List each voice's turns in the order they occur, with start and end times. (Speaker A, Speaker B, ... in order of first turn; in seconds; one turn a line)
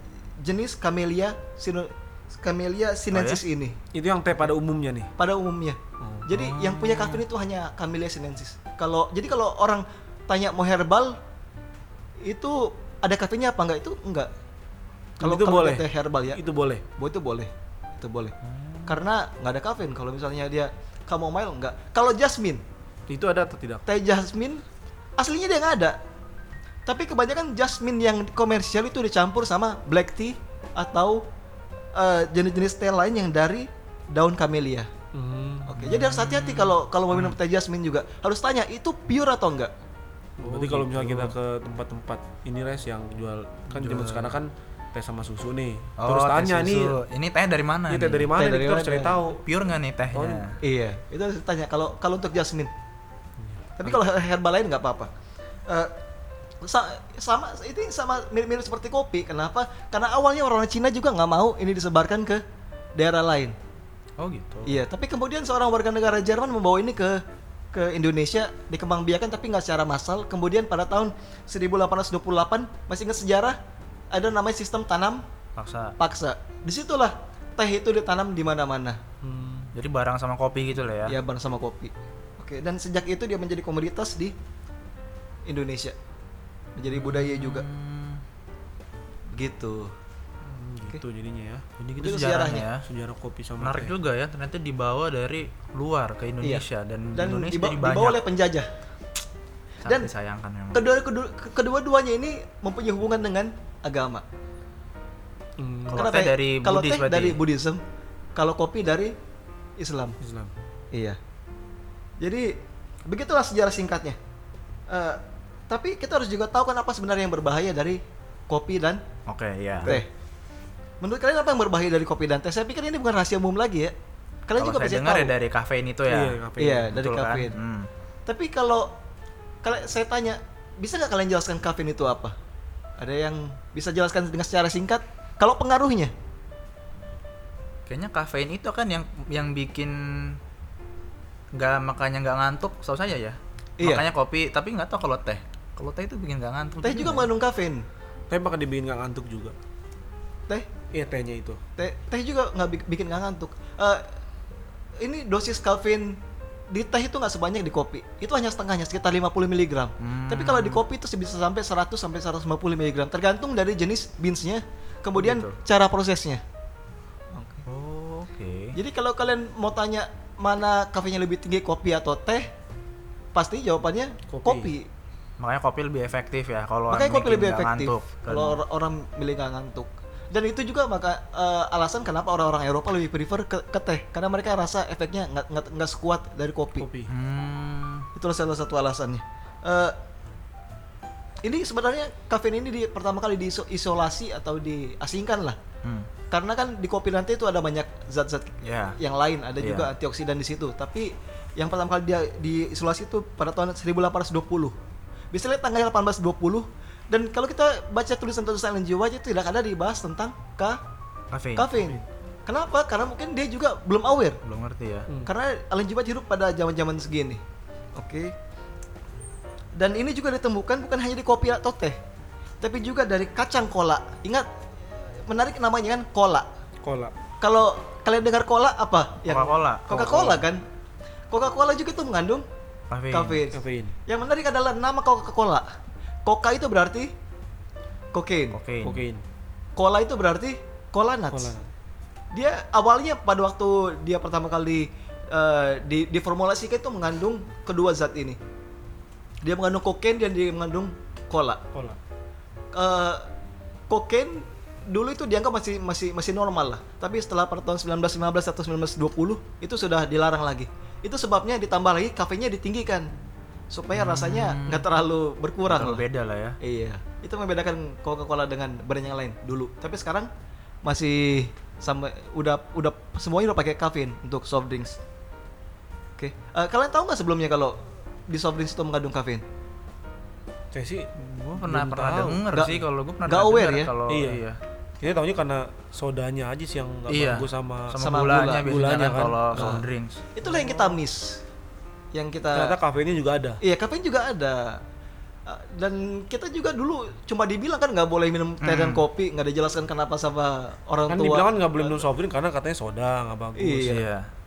Speaker A: 0.4-3.8
Speaker B: 3.1-3.4
Speaker C: 3.9-5.1
Speaker A: 5.2-11.2
Speaker C: 6.0-6.2
Speaker B: 6.3-7.2
Speaker A: 12.2-14.3
Speaker C: 15.2-16.8
Speaker A: 15.2-16.4
Speaker A: 16.9-18.3
Speaker B: 18.5-19.0
Speaker A: 18.9-22.6
Speaker C: 23.1-23.8
Speaker A: 23.9-24.6
Speaker A: 25.2-26.0
Speaker A: 26.9-31.2
Speaker A: 31.9-34.9
Speaker C: 35.1-35.7
Speaker A: 35.6-39.7
Speaker B: 35.8-37.4
Speaker C: 40.4-47.0
Speaker B: 40.4-41.4
Speaker B: 43.9-44.3
Speaker B: 46.0-48.3
Speaker C: 47.9-49.5
Speaker A: 48.4-49.2
Speaker B: 49.4-50.6
Speaker C: 50.1-50.5
Speaker A: 50.6-52.7
Speaker A: 53.8-55.1
Speaker A: 56.6-62.4
Speaker A: 63.0-63.5
Speaker B: 64.2-64.8
Speaker A: 64.7-67.2
Speaker A: 67.7-73.6
Speaker A: 74.1-75.2
Speaker B: 75.5-76.0
Speaker A: 76.0-79.0
Speaker C: 79.2-79.7
Speaker B: 79.7-81.2
Speaker A: 81.1-84.3
Speaker A: 85.5-86.0
Speaker A: 86.8-87.7
Speaker B: 86.9-88.2
Speaker A: 89.3-89.9
Speaker C: 90.4-91.8
Speaker B: 91.8-92.8
Speaker A: 92.0-92.7
Speaker C: 92.8-93.9
Speaker B: 93.6-98.2
Speaker A: 96.4-98.7
Speaker B: 99.8-100.9
Speaker A: 100.7-104.2
Speaker C: 105.6-106.0
Speaker B: 105.9-107.4
Speaker A: 105.9-107.8
Speaker A: 108.3-109.1
Speaker A: 109.8-110.2
Speaker C: 110.2-110.5
Speaker A: 110.9-111.2
Speaker A: 112.2-114.2
Speaker A: 114.9-119.0
Speaker B: 119.3-120.0
Speaker A: 121.0-123.9
Speaker A: 124.5-125.3
Speaker B: 124.6-127.9
Speaker C: 126.1-126.9
Speaker A: 126.6-127.5
Speaker A: 128.3-128.9
Speaker A: 129.6-132.3
Speaker A: 133.0-136.1
Speaker B: 137.9-140.4
Speaker B: 141.5-147.3
Speaker A: 143.8-144.0
Speaker A: 146.8-147.8
Speaker C: 148.3-149.5
Speaker C: 150.9-151.6
Speaker A: 151.8-154.0
Speaker A: 155.0-156.2
Speaker A: 156.7-166.4
Speaker B: 160.0-160.8
Speaker B: 165.1-165.6
Speaker A: 167.3-167.6
Speaker B: 167.7-168.8
Speaker A: 168.7-172.5
Speaker A: 173.3-174.9
Speaker C: 174.3-174.7
Speaker B: 175.4-178.6
Speaker A: 176.9-186.9
Speaker C: 186.8-187.1
Speaker B: 187.1-188.1
Speaker A: 188.1-189.9
Speaker A: 191.4-195.6
Speaker B: 195.8-196.1
Speaker A: 196.3-204.7
Speaker B: 198.6-199.0
Speaker B: 199.6-199.9
Speaker A: 205.3-210.8
Speaker B: 211.3-211.7
Speaker A: 211.6-214.4
Speaker B: 214.4-215.1
Speaker A: 215.2-217.4
Speaker A: 217.9-218.3
Speaker A: 219.8-222.0
Speaker A: 222.6-224.5
Speaker A: 225.3-226.4
Speaker C: 226.8-227.1
Speaker A: 227.4-230.6
Speaker B: 229.2-230.4
Speaker A: 231.3-232.4
Speaker B: 232.9-233.4
Speaker A: 233.1-235.7
Speaker C: 233.5-233.9
Speaker A: 236.2-237.1
Speaker A: 238.1-238.6
Speaker B: 238.5-239.0
Speaker C: 238.8-239.2
Speaker A: 239.8-241.5
Speaker C: 241.3-241.7
Speaker A: 242.3-248.4
Speaker A: 249.4-251.6
Speaker A: 252.7-253.3
Speaker A: 253.9-263.1
Speaker A: 263.7-266.0
Speaker B: 263.9-264.9
Speaker B: 265.6-266.6
Speaker A: 266.6-270.3
Speaker A: 270.8-275.0
Speaker A: 276.2-279.4
Speaker C: 280.7-282.4
Speaker B: 281.1-284.6
Speaker A: 282.5-283.9
Speaker C: 284.1-284.4
Speaker C: 285.0-288.0
Speaker B: 287.1-290.2
Speaker A: 288.0-288.6
Speaker C: 288.6-289.8
Speaker A: 290.3-291.4
Speaker C: 290.4-291.0
Speaker A: 292.1-292.8
Speaker C: 292.5-293.6
Speaker A: 293.6-294.8
Speaker A: 295.4-302.1
Speaker B: 298.6-299.0
Speaker C: 301.1-304.0
Speaker A: 303.6-304.1
Speaker B: 303.8-304.3